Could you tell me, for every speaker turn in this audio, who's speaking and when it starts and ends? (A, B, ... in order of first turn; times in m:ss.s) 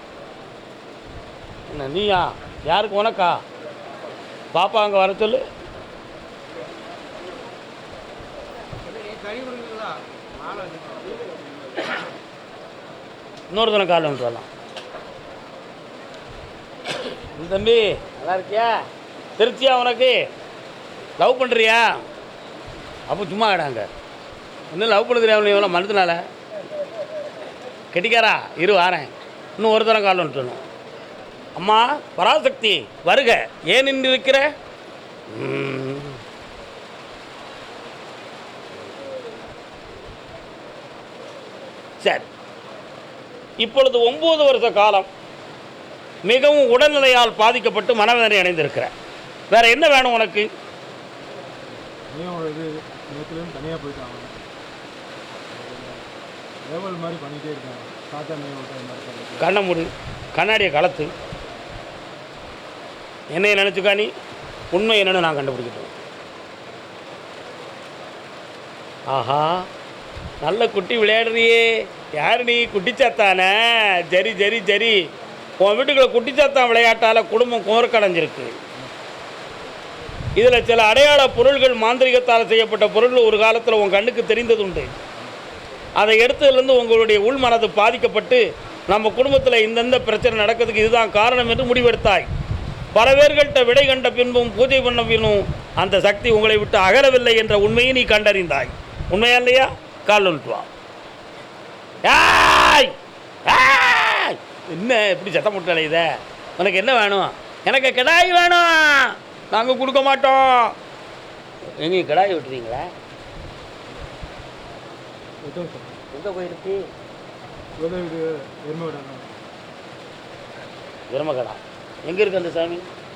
0:01.7-0:03.4 A
0:04.5-0:05.4 A
0:13.5-0:14.5 A
0:17.4-0:18.8 A
0:19.4-0:20.2 A
0:21.2-0:22.0 A
0:23.1-0:23.9 A
0:24.7-0:26.2 A
0:27.9-0:30.6 A
0:31.6-0:34.5 A
0:35.3-0:36.2 A
0:43.6-0:45.1 A
0:46.3-0:48.9 A
0:49.5-0:50.5 A
0:52.1-0:54.4 B
0:55.5-0:56.0 B
0:56.6-0:59.5 B
0:59.4-1:01.1 A
1:03.3-1:04.1 A
1:04.7-1:05.9 A
1:09.1-1:09.6 A
1:10.4-1:15.0 A
1:15.6-1:18.5 A
1:20.4-1:24.9 A
1:26.0-1:32.3 A
1:32.9-1:40.7 A
1:42.0-1:42.9 A
1:43.5-1:50.8 A
1:51.8-1:52.9 A
1:55.4-1:56.0 B
1:56.1-1:56.9 A
1:57.8-1:59.3 B
2:01.1-2:02.9 A